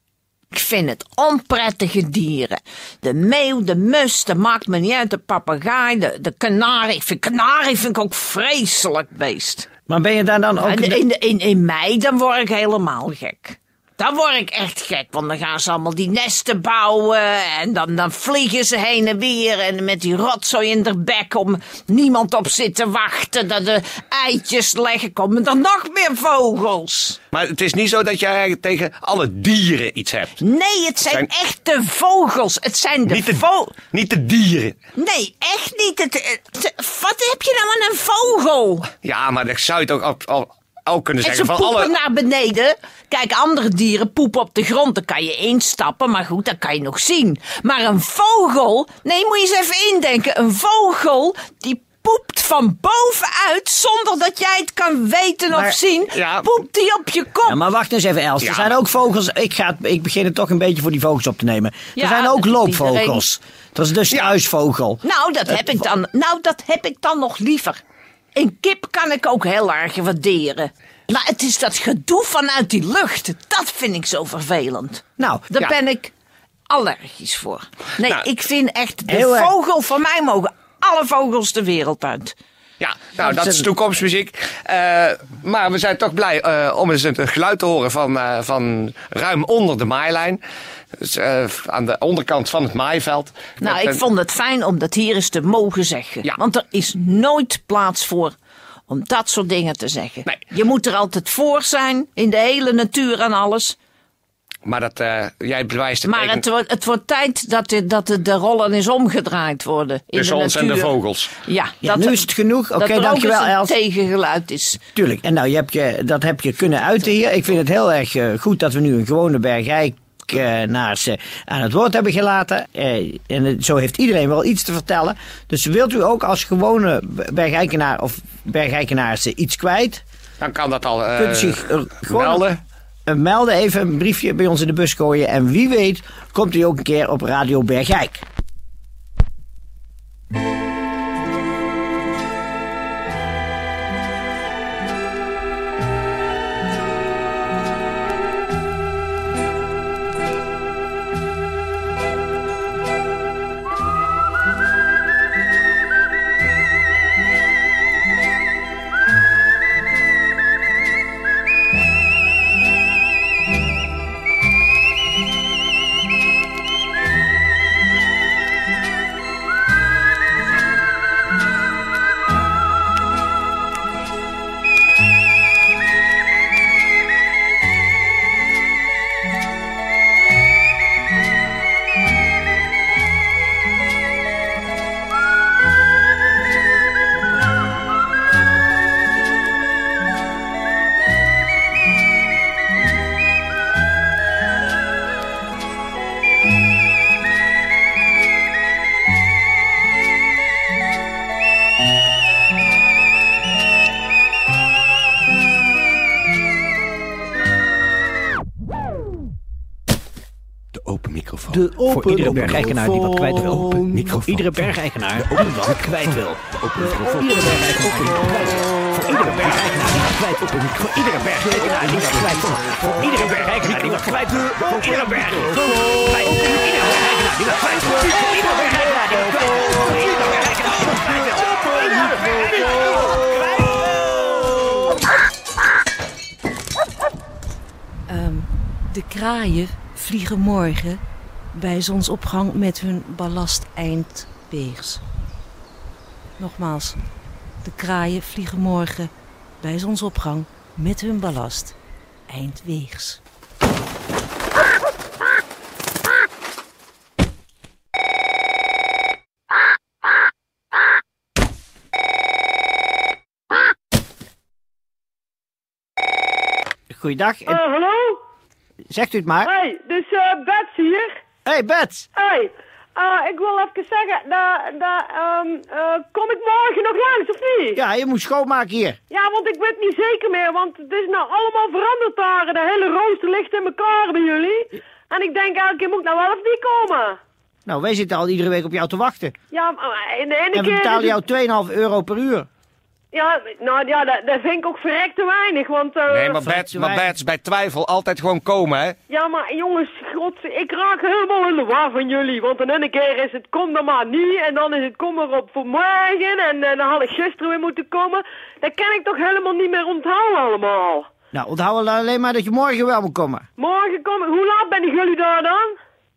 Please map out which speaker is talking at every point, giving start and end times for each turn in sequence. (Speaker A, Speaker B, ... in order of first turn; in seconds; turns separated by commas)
Speaker A: 0.5-9.7, Speaker B: 9.9-11.0, Speaker A: 10.6-27.2, Speaker C: 27.3-30.4, Speaker A: 30.4-33.8, Speaker C: 33.0-34.8, Speaker A: 35.0-38.9, Speaker C: 39.0-41.9, Speaker A: 41.2-57.6, Speaker C: 56.1-56.4, Speaker B: 57.4-65.0, Speaker C: 58.4-58.7, Speaker A: 61.9-63.2, Speaker A: 65.0-67.8, Speaker A: 68.3-76.1, Speaker B: 75.2-75.5, Speaker A: 76.7-82.3, Speaker B: 79.1-79.5, Speaker C: 82.8-90.4, Speaker B: 83.2-83.7, Speaker C: 91.0-94.0, Speaker A: 93.6-98.3, Speaker A: 98.9-103.8, Speaker C: 104.6-106.4, Speaker A: 106.0-114.8, Speaker C: 110.1-111.3, Speaker B: 111.8-113.7, Speaker B: 115.0-130.0, Speaker C: 130.4-132.6, Speaker B: 131.1-132.4, Speaker B: 133.1-138.2, Speaker C: 210.8-212.7, Speaker B: 211.5-233.0, Speaker C: 213.3-214.6, Speaker C: 216.6-217.5, Speaker C: 219.0-219.3, Speaker C: 220.9-221.4, Speaker D: 238.1-245.0, Speaker D: 246.4-247.0, Speaker D: 247.6-251.7, Speaker D: 252.3-253.2, Speaker B: 266.9-267.6, Speaker E: 267.5-268.2, Speaker B: 268.9-269.5, Speaker E: 269.4-271.1, Speaker B: 271.4-272.1, Speaker E: 272.1-277.8, Speaker B: 277.8-279.0, Speaker E: 279.1-287.2, Speaker B: 287.6-289.3, Speaker E: 289.5-291.1, Speaker B: 290.5-292.5, Speaker E: 293.1-296.4, Speaker C: 296.1-299.0, Speaker B: 296.4-297.1, Speaker E: 299.1-311.1, Speaker B: 311.3-313.4, Speaker E: 313.6-315.8